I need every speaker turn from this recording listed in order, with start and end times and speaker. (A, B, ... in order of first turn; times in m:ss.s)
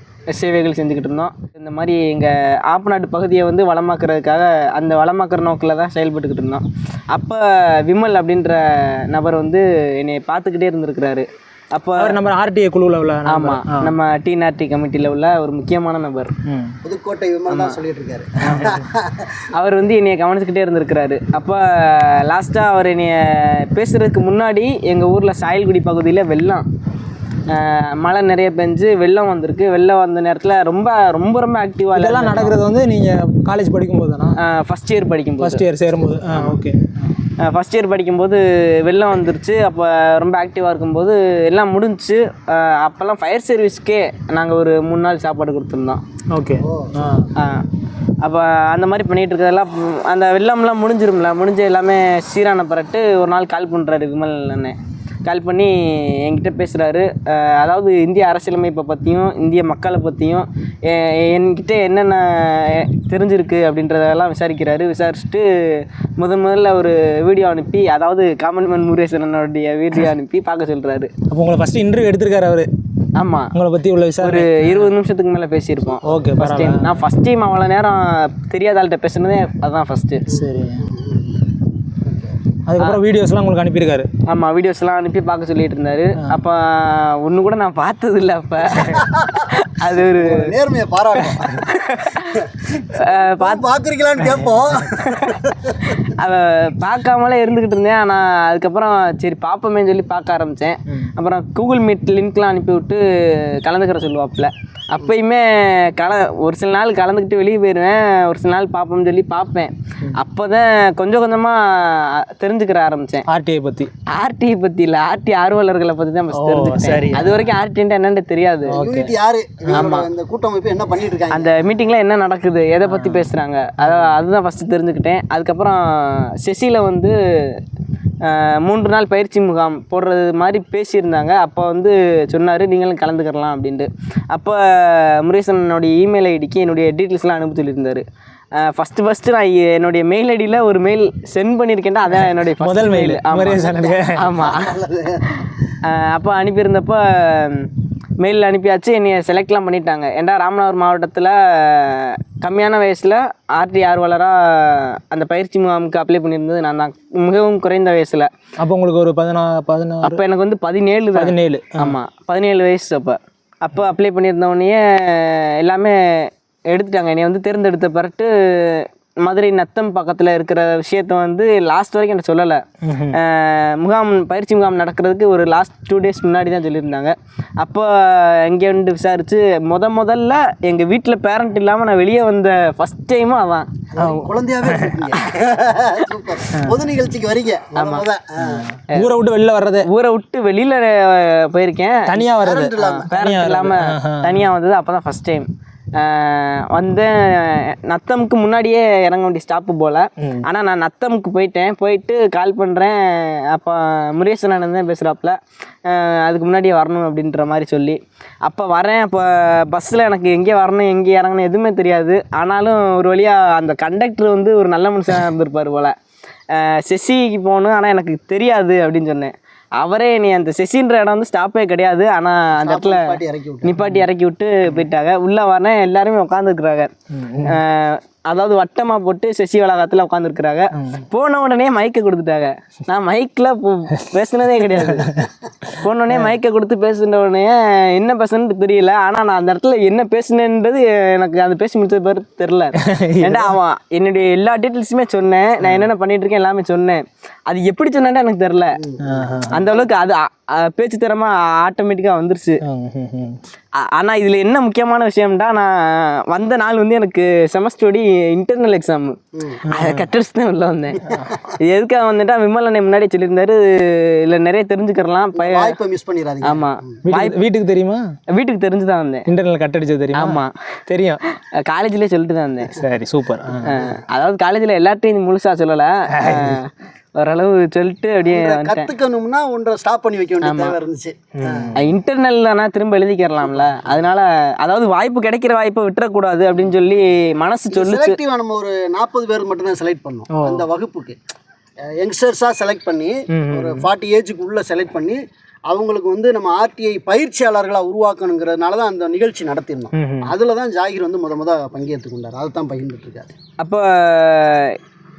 0:00.3-0:12.2 A
0:12.0-0:13.9 B
0:13.2-0:16.3 A
0:16.5-0:16.8 B
0:16.8-0:19.3 C
0:17.5-0:17.8 A
0:18.4-0:18.8 B
0:19.5-0:26.6 A
0:27.5-0:32.6 A
0:31.9-0:34.4 B
0:34.4-0:36.6 A
0:35.4-0:36.8 B
0:37.4-0:46.0 A
0:46.3-0:47.3 B
0:46.6-0:46.9 C
0:47.3-0:47.7 A
0:48.2-1:11.1 A
1:11.3-1:12.7 B
1:13.2-1:13.5 A
1:13.5-1:14.9 B
1:14.2-1:20.3 A
1:16.0-1:17.0 B
1:20.3-1:20.8 B
1:20.3-1:21.5 C
1:22.0-1:22.4 C
1:22.7-1:24.1 B
1:24.3-1:30.5 A
1:28.8-1:29.5 C
1:30.2-1:36.0 C
1:31.5-1:33.6 A
1:34.2-1:34.8 B
1:34.9-1:53.2 A
1:53.3-1:53.9 B
1:54.1-1:58.8 A
1:56.4-1:57.4 B
1:58.7-1:59.1 B
1:58.7-2:01.5 C
1:59.7-2:00.1 A
2:01.3-2:07.6 A
2:02.9-2:03.3 B
2:08.2-2:18.0 A
2:18.6-2:24.8 A
2:22.2-2:24.3 B
2:23.6-2:25.2 C
2:25.8-2:38.3 A
2:38.6-2:40.2 B
2:40.0-3:03.7 A
2:41.1-2:41.9 B
2:52.8-2:53.2 B
3:03.9-3:08.6 C
3:04.0-3:05.1 B
3:07.7-3:08.0 A
3:08.4-3:09.8 B
3:09.8-3:12.2 A
3:12.1-3:14.4 B
3:12.4-3:13.1 C
3:12.7-3:35.9 A
3:36.5-3:46.9 A
3:42.6-3:43.8 C
3:43.8-3:44.0 B
3:47.1-3:47.6 B
3:47.4-3:55.2 A
3:50.8-3:51.0 B
3:54.9-3:55.3 B
3:55.7-4:08.8 A
4:02.8-4:03.5 B
4:05.6-4:05.9 B
4:08.8-4:09.9 C
4:09.0-4:09.6 B
4:09.5-4:12.6 A
4:12.6-4:13.4 B
4:13.8-4:19.2 A
4:19.3-4:19.6 C
4:19.7-4:20.0 B
4:19.7-4:25.8 A
4:25.3-4:27.0 C
4:26.4-4:27.4 A
4:27.0-4:28.0 B
4:28.3-4:29.3 A
4:29.3-4:31.2 B
4:30.1-4:30.5 A
4:31.3-4:32.8 A
4:32.8-4:33.7 B
4:33.6-4:38.9 A
4:36.1-4:36.6 B
4:38.2-4:41.8 C
4:40.4-4:40.8 A
4:41.4-4:41.8 B
4:41.8-4:48.2 A
4:43.4-4:44.0 C
4:47.7-4:51.2 C
4:50.3-4:50.6 B
4:51.9-5:03.3 C
4:53.3-4:53.8 B
4:59.9-5:00.3 B
5:03.6-5:04.8 A